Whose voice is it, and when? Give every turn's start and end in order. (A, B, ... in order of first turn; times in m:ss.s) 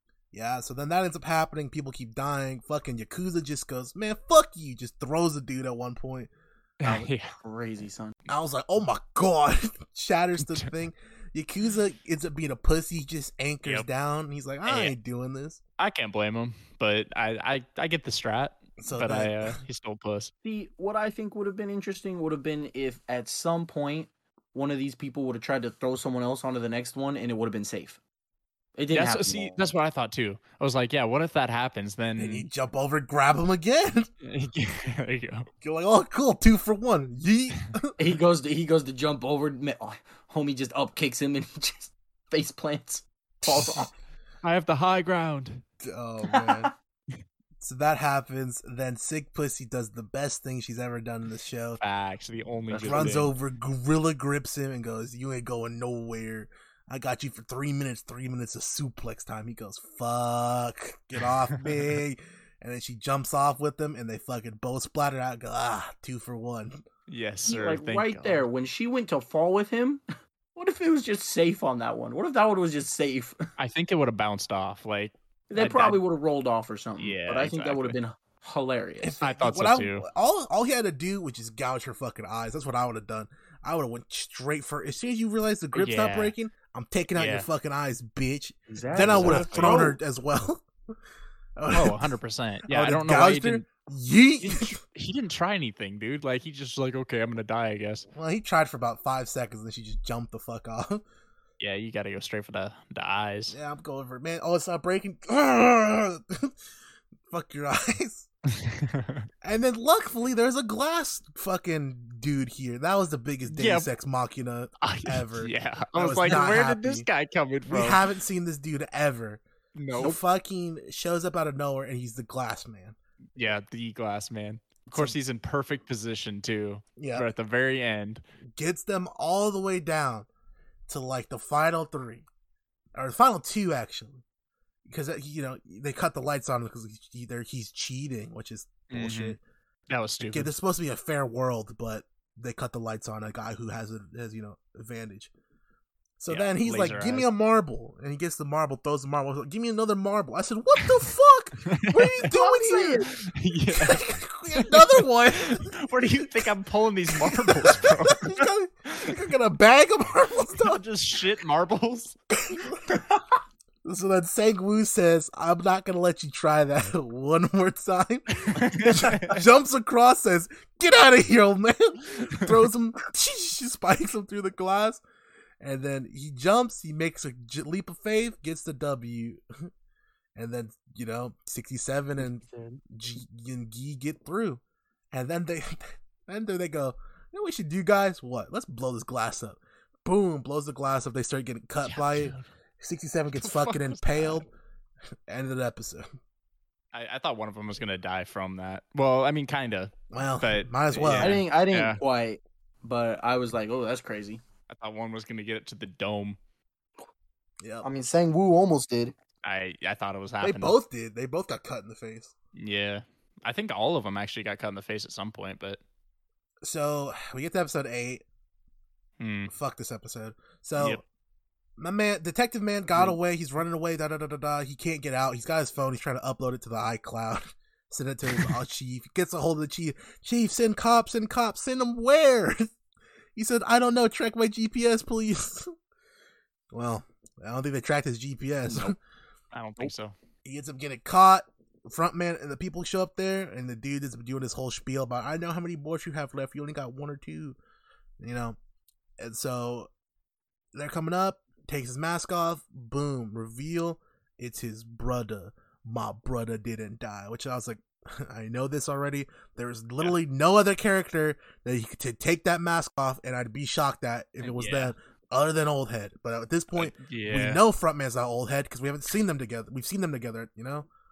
0:00.3-0:06.3 A
0:06.8-0:07.3 B
0:06.8-0:08.2 C
0:08.3-0:15.6 A
0:10.4-0:10.7 B
0:14.6-0:14.9 B
0:15.8-0:20.3 B
0:18.8-0:19.6 A
0:20.4-0:28.0 C
0:28.8-0:29.6 C
0:28.9-0:32.5 B
0:32.2-0:34.1 A
0:34.2-0:35.5 B
0:35.6-0:37.9 A
0:38.0-0:43.9 C
0:43.5-0:43.7 A
0:44.4-0:45.6 B
0:45.8-0:46.7 A
0:46.3-0:46.7 C
0:47.6-0:51.8 A
0:51.8-0:53.3 B
0:52.7-0:53.1 C
0:52.7-1:06.8 A
1:07.1-1:08.4 B
1:07.4-1:10.0 C
1:10.6-1:13.4 C
1:13.6-1:16.0 B
1:15.5-1:19.1 C
1:17.0-1:17.9 B
1:19.0-1:30.6 A
1:19.2-1:20.0 B
1:25.7-1:26.3 B
1:27.2-1:27.5 B
1:28.7-1:30.0 C
1:29.0-1:29.9 B
1:31.6-1:32.2 A
1:31.7-1:33.6 B
1:32.7-1:34.8 A
1:34.4-1:38.1 B
1:38.1-1:41.0 A
1:41.6-1:43.6 B
1:43.5-1:46.5 A
1:47.3-1:48.3 A
1:48.6-1:49.3 B
1:49.4-1:57.1 A
1:53.5-1:53.9 B
1:54.8-1:58.0 B
1:57.7-1:59.4 A
1:59.7-2:00.2 B
1:59.9-2:03.0 A
2:03.4-2:08.2 B
2:07.0-2:07.3 A
2:08.6-2:10.3 A
2:10.9-2:12.2 A
2:13.0-2:14.2 A
2:14.8-2:19.4 A
2:18.9-2:19.4 B
2:19.9-2:20.5 B
2:20.2-2:25.3 A
2:26.2-2:33.1 A
2:26.3-2:27.3 B
2:31.6-2:32.3 B
2:32.2-2:33.1 C
2:33.0-2:39.2 B
2:33.7-2:36.5 A
2:37.1-2:40.8 A
2:40.5-2:42.1 B
2:42.4-2:43.2 A
2:43.8-2:55.0 A
2:48.3-2:49.4 B
2:55.6-2:59.4 A
3:00.4-3:14.5 A
3:02.2-3:02.8 C
3:11.8-3:12.4 B
3:13.4-3:14.4 B
3:15.3-3:16.0 A
3:16.9-3:22.0 B
3:20.1-3:21.4 A
3:21.0-3:24.4 C
3:24.7-3:26.4 B
3:27.6-3:27.9 A
3:27.8-3:29.1 C
3:29.4-3:30.8 B
3:30.4-3:32.3 A
3:32.5-3:35.8 B
3:36.6-3:38.2 A
3:39.2-3:39.5 B
3:39.5-3:41.0 A
3:41.8-3:52.7 A
3:48.3-3:48.5 B
3:53.4-3:55.7 A
3:56.7-3:59.0 A
3:58.7-3:58.9 C
3:59.5-4:00.1 B
4:00.4-4:07.6 A
4:08.2-4:08.6 A
4:09.2-4:09.9 A
4:10.7-4:30.9 A
4:24.4-4:24.9 B
4:26.7-4:27.6 B